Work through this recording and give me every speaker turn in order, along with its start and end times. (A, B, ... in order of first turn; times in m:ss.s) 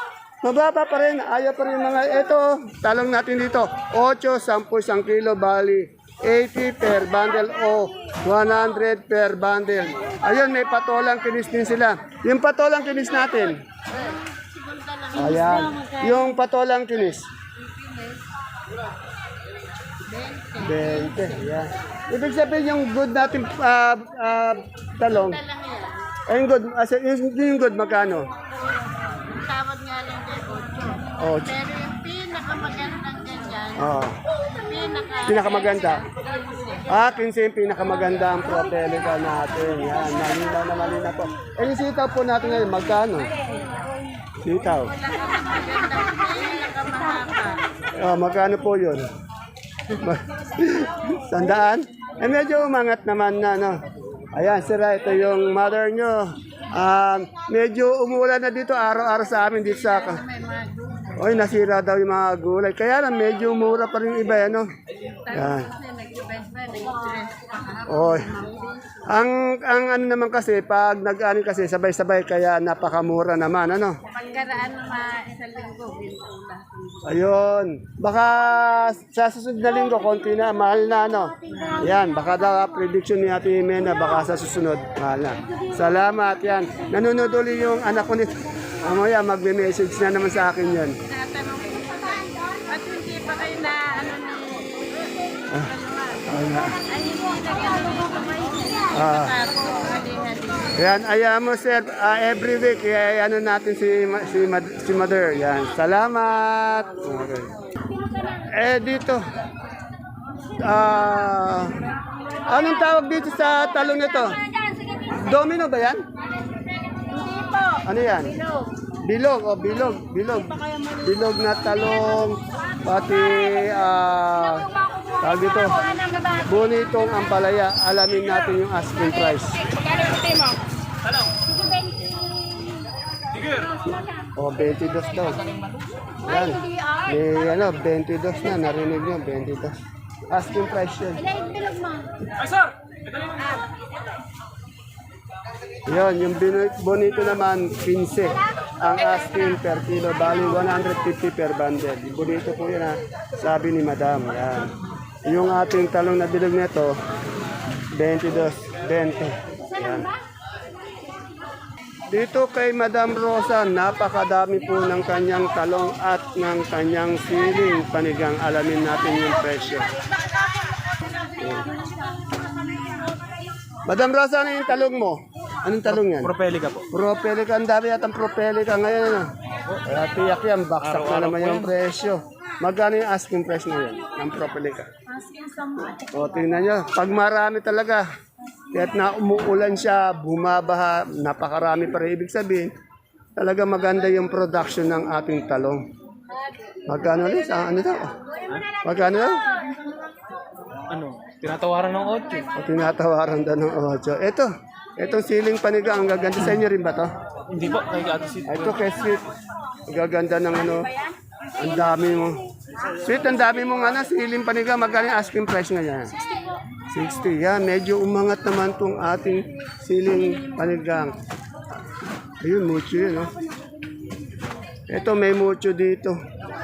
0:00.4-0:13.6 A
0:13.9-0:16.3 B
0:15.1-0:17.3 A
0:17.6-0:18.2 B
0:20.0-0:21.5 B
0:20.6-0:25.4 A
0:25.0-0:26.1 B
0:26.3-0:28.3 A
0:29.2-0:36.9 B
0:31.2-0:31.5 A
0:33.8-0:34.2 A
0:35.3-0:36.0 A
0:36.9-0:43.3 A
0:44.4-0:44.9 A
0:44.9-0:47.6 B
0:48.0-0:49.1 A
0:49.9-1:00.2 A
0:59.7-1:01.3 B
1:01.2-1:04.7 A
1:05.0-1:09.0 B
1:05.3-1:05.7 A
1:07.9-1:08.3 A
1:09.1-1:14.0 A
1:14.1-1:17.2 B
1:17.0-1:31.0 A
1:31.0-1:40.8 B
1:36.3-1:36.8 A
1:38.9-1:39.4 A
1:40.8-1:47.5 A
1:48.5-1:49.2 A
1:50.6-1:51.8 A
1:52.5-1:54.4 A
1:54.4-1:55.2 B
1:55.1-1:56.0 A
1:57.0-1:58.7 B
1:57.8-1:58.4 A
1:59.0-2:05.8 A
2:05.6-2:06.6 B
2:06.4-2:09.7 A
2:09.7-2:10.6 B
2:11.4-2:12.8 B
2:13.5-2:14.0 B
2:14.4-2:15.5 A
2:16.2-2:19.8 A
2:16.3-2:17.1 B
2:20.3-2:21.3 A
2:21.3-2:22.4 B
2:23.4-2:23.8 B
2:25.9-2:34.7 A
2:35.3-2:37.0 A
2:37.9-2:40.1 A
2:42.1-2:49.9 A
2:51.4-2:51.7 A
2:51.4-2:53.3 B
2:53.9-2:56.4 A
2:56.2-2:56.8 C
2:56.9-2:59.3 A
2:59.8-3:04.9 A
3:00.8-3:01.7 C
3:05.1-3:06.1 B
3:06.1-3:08.1 A
3:08.7-3:12.7 A
3:13.4-3:15.8 A
3:16.9-3:18.2 A
3:18.8-3:19.5 A
3:20.9-3:22.5 C
3:22.6-3:27.1 A
3:27.5-3:28.8 C
3:28.5-3:29.3 A
3:29.9-3:30.9 A
3:31.6-3:32.4 A
3:33.0-3:36.2 A
3:36.9-3:41.2 A
3:42.4-3:43.4 A
3:44.9-3:46.2 A